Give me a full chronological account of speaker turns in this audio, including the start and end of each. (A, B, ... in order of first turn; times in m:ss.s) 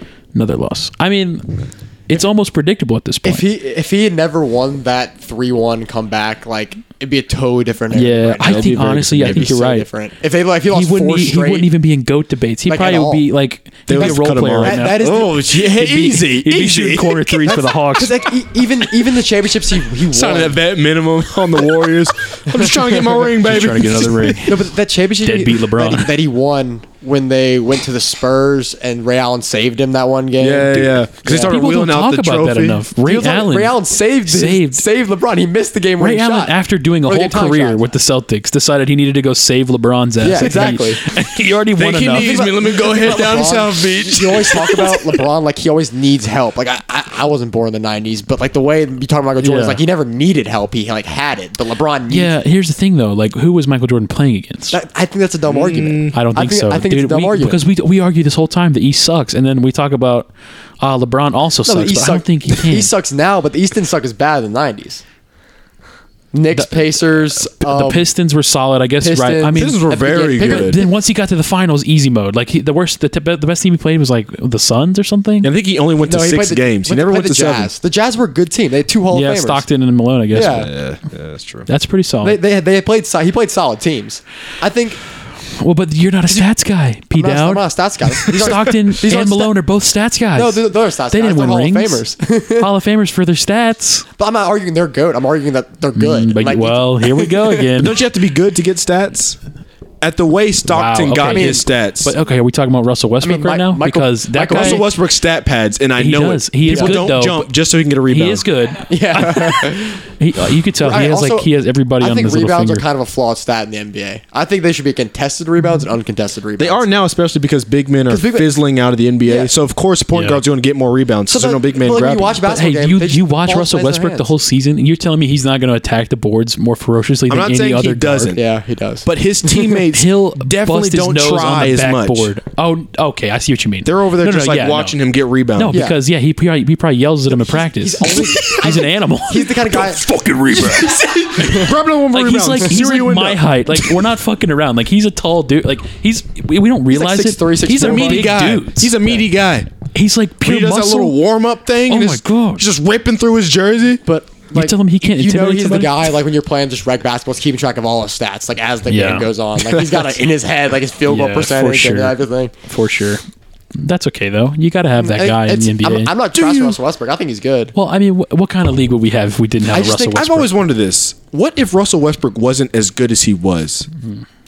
0:00.3-0:03.4 A
0:03.2-0:11.7 B
0:07.9-0:09.8 A
0:08.4-0:09.5 C
0:10.7-0:18.2 A
0:12.7-0:13.2 B
0:13.9-0:15.5 B
0:13.9-0:17.2 C
0:17.4-0:20.6 B
0:20.1-0:24.5 C
0:22.5-0:23.2 B
0:23.4-0:24.6 A
0:24.4-0:31.6 B
0:25.2-0:26.1 A
0:30.4-0:32.8 C
0:31.4-0:34.8 A
0:33.0-0:37.8 B
0:36.0-0:42.4 A
0:40.2-0:41.0 B
0:41.7-0:45.2 C
0:42.1-0:52.3 B
0:49.4-0:49.8 A
0:52.1-0:54.8 A
0:54.7-0:57.6 B
0:55.5-0:56.1 C
0:56.1-1:00.3 A
1:00.8-1:02.9 A
1:01.6-1:05.0 B
1:06.3-1:08.1 B
1:06.5-1:09.8 A
1:09.0-1:10.9 B
1:09.5-1:10.8 C
1:10.4-1:15.5 A
1:15.4-1:17.7 C
1:16.0-1:19.6 B
1:19.1-1:20.7 A
1:20.3-1:20.7 B
1:20.4-1:21.7 C
1:21.6-1:22.4 A
1:22.2-1:25.0 B
1:25.6-1:27.6 A
1:27.1-1:29.5 B
1:28.2-1:32.0 A
1:30.3-1:32.7 B
1:32.6-1:34.0 A
1:34.2-1:37.6 B
1:35.9-1:38.0 A
1:37.8-1:39.4 C
1:40.0-1:42.1 C
1:40.7-1:44.8 A
1:41.2-1:41.6 B
1:43.2-1:44.9 B
1:44.6-1:48.4 C
1:46.0-1:47.5 A
1:46.7-1:47.0 B
1:48.1-1:52.8 A
1:48.9-1:50.0 B
1:50.8-1:56.9 B
1:56.6-2:02.4 C
1:58.1-1:58.5 B
1:59.2-1:59.5 B
2:00.1-2:00.4 A
2:01.3-2:04.3 B
2:02.5-2:08.3 A
2:07.3-2:08.4 C
2:08.3-2:09.7 B
2:09.0-2:12.3 C
2:09.9-2:15.0 A
2:13.8-2:15.8 C
2:15.5-2:29.2 A
2:15.7-2:16.0 B
2:17.4-2:20.0 B
2:19.7-2:24.0 C
2:20.7-2:21.6 B
2:26.9-2:28.4 B
2:27.7-2:29.7 C
2:29.9-2:31.2 A
2:30.4-2:34.0 C
2:31.9-2:32.6 A
2:34.0-2:42.5 B
2:34.5-2:36.0 A
2:38.9-2:40.0 A
2:41.0-2:43.2 A
2:43.7-2:46.1 A
2:45.0-2:47.7 B
2:46.3-2:46.8 C
2:47.7-2:50.5 A
2:49.6-2:50.2 B
2:50.1-2:53.9 C